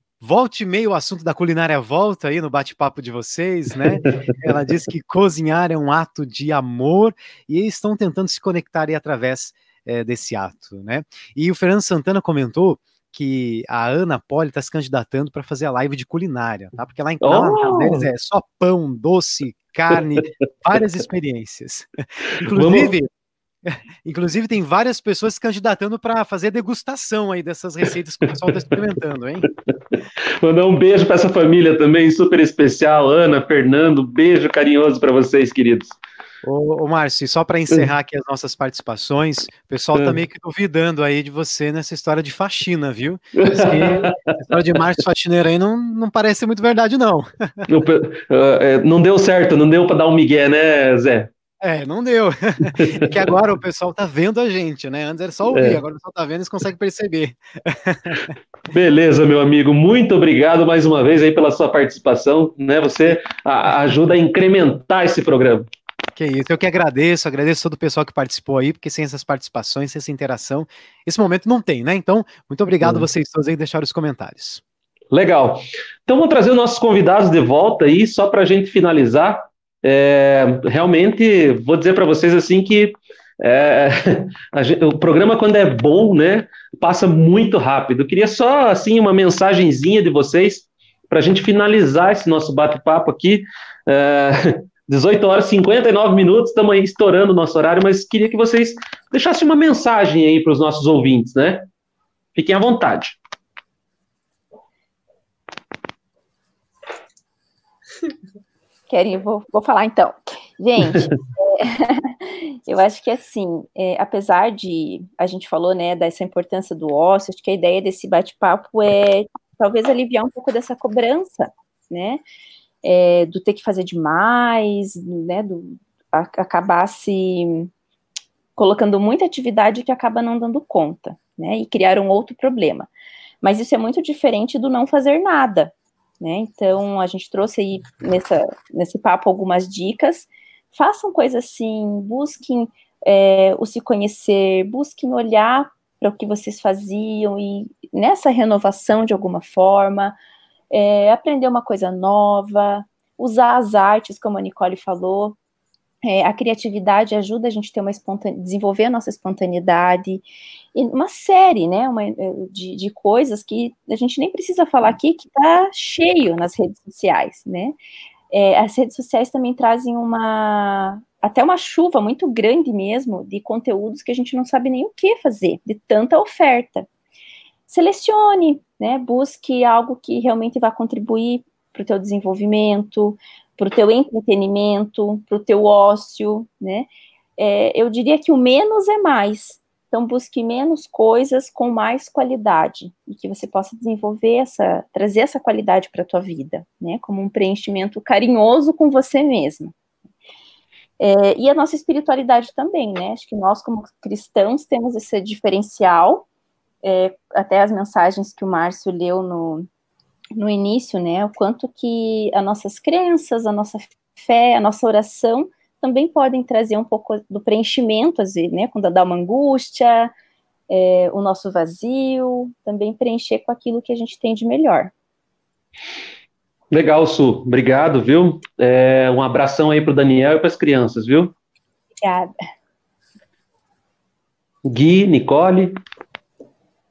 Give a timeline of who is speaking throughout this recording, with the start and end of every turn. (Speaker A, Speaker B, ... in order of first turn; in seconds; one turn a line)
Speaker A: 0.2-21.9
Speaker B: 17.2-18.1
Speaker A: 22.4-23.1
Speaker B: 22.5-22.9
Speaker A: 23.6-29.5
Speaker B: 29.9-35.9
Speaker A: 36.4-47.7
Speaker B: 43.4-44.2
Speaker B: 47.7-51.3
Speaker A: 51.6-58.3
Speaker B: 52.6-53.1
Speaker B: 55.5-55.8
Speaker B: 58.7-65.7
Speaker A: 66.1-74.6
Speaker B: 72.8-73.1
Speaker B: 75.1-101.7
Speaker B: 102.3-103.2
Speaker C: 108.9-122.2
Speaker C: 122.8-127.7
Speaker C: 128.6-132.9
Speaker C: 133.4-150.2
Speaker C: 150.7-155.4
Speaker C: 156.0-167.8
Speaker C: 168.3-176.9
Speaker C: 177.7-199.7
Speaker C: 201.0-206.2
Speaker C: 206.8-209.7
Speaker C: 210.3-220.1
Speaker C: 220.7-224.9
Speaker B: 226.7-231.3
Speaker C: 232.0-232.3
Speaker B: 234.7-235.8